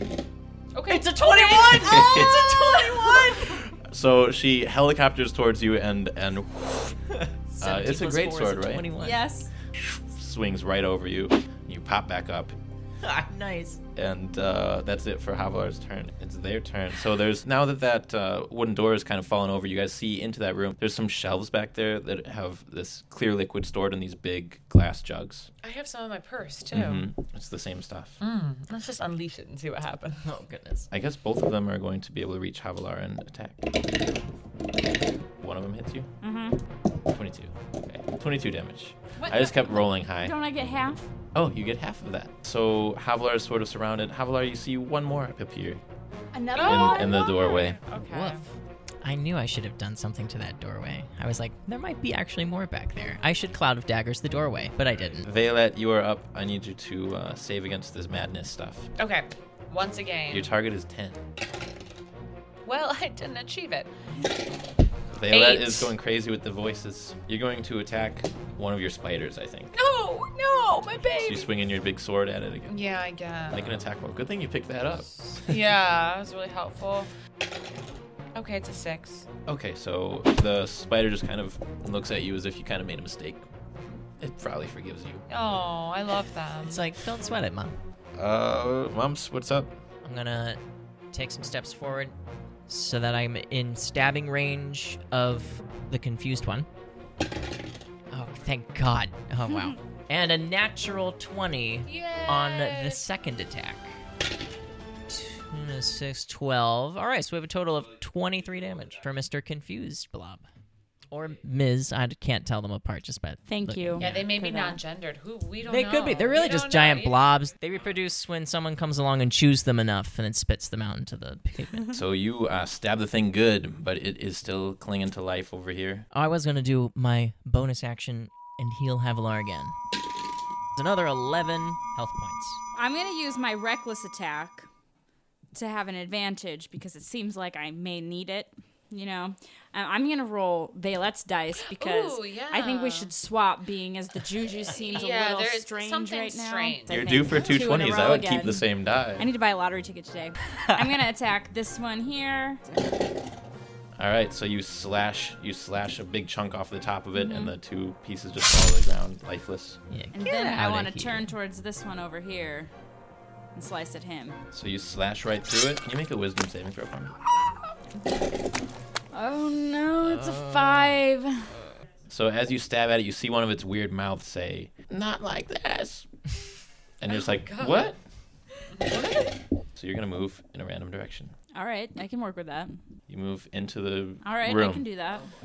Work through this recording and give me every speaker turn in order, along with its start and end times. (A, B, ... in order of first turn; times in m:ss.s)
0:00.7-0:02.6 A
0:00.9-0:03.7 B
0:01.8-0:02.3 C
0:03.8-0:07.0 C
0:07.1-0:09.2 B
0:07.6-0:08.9 C
0:09.0-0:09.5 D
0:09.7-0:12.5 C
0:13.0-0:13.8 B
0:14.0-0:25.5 C
0:25.6-0:27.0 A
0:26.7-0:28.2 C
0:28.2-0:30.2 A
0:30.2-0:30.9 B
0:30.9-0:33.6 C
0:35.4-0:36.1 C
0:36.2-0:36.6 D
0:37.1-0:40.3 C
0:39.2-0:41.0 D
0:41.3-0:45.8 C
0:46.3-0:47.5 D
0:46.5-0:48.4 A
0:46.6-0:47.8 C
0:47.9-0:48.4 B
0:49.0-0:55.2 B
0:55.2-0:58.9 C
0:59.0-1:00.5 A
1:00.3-1:01.2 C
1:02.6-1:03.9 A
1:05.1-1:09.7 C
1:05.3-1:05.9 A
1:09.7-1:11.5 A
1:11.2-1:12.8 C
1:12.7-1:13.7 A
1:13.5-1:15.1 C
1:15.5-1:17.1 A
1:18.3-1:19.2 A
1:19.4-1:23.4 C
1:24.2-1:25.2 C
1:25.3-1:26.8 A
1:26.6-1:27.8 B
1:28.2-1:29.8 C
1:30.0-1:30.6 B
1:31.1-1:32.1 B
1:32.7-1:36.7 B
1:38.1-1:43.9 B
1:41.8-1:43.0 A
1:45.1-1:50.4 B
1:51.1-1:54.1 B
1:53.5-1:54.8 D
1:54.0-1:57.3 A
1:55.6-2:02.0 B
2:01.9-2:06.0 C
2:06.1-2:09.7 B
2:10.8-2:12.6 B
2:12.8-2:14.7 D
2:15.5-2:28.6 D
2:21.7-2:23.1 A
2:24.7-2:27.5 A
2:26.9-2:29.3 C
2:29.2-2:32.8 D
2:30.5-2:31.0 B
2:34.0-2:39.8 C
2:37.1-2:37.5 D
2:39.9-2:41.3 B
2:40.1-2:42.7 D
2:43.5-2:44.4 D
2:44.5-2:47.1 C
2:49.1-2:51.5 D
2:50.0-2:50.9 B
2:52.1-2:56.1 C
2:57.0-2:58.0 C
2:57.1-2:58.0 A
2:58.7-2:59.2 A
2:59.7-3:01.4 C
3:01.5-3:02.8 D
3:03.1-3:04.8 C
3:04.2-3:05.3 D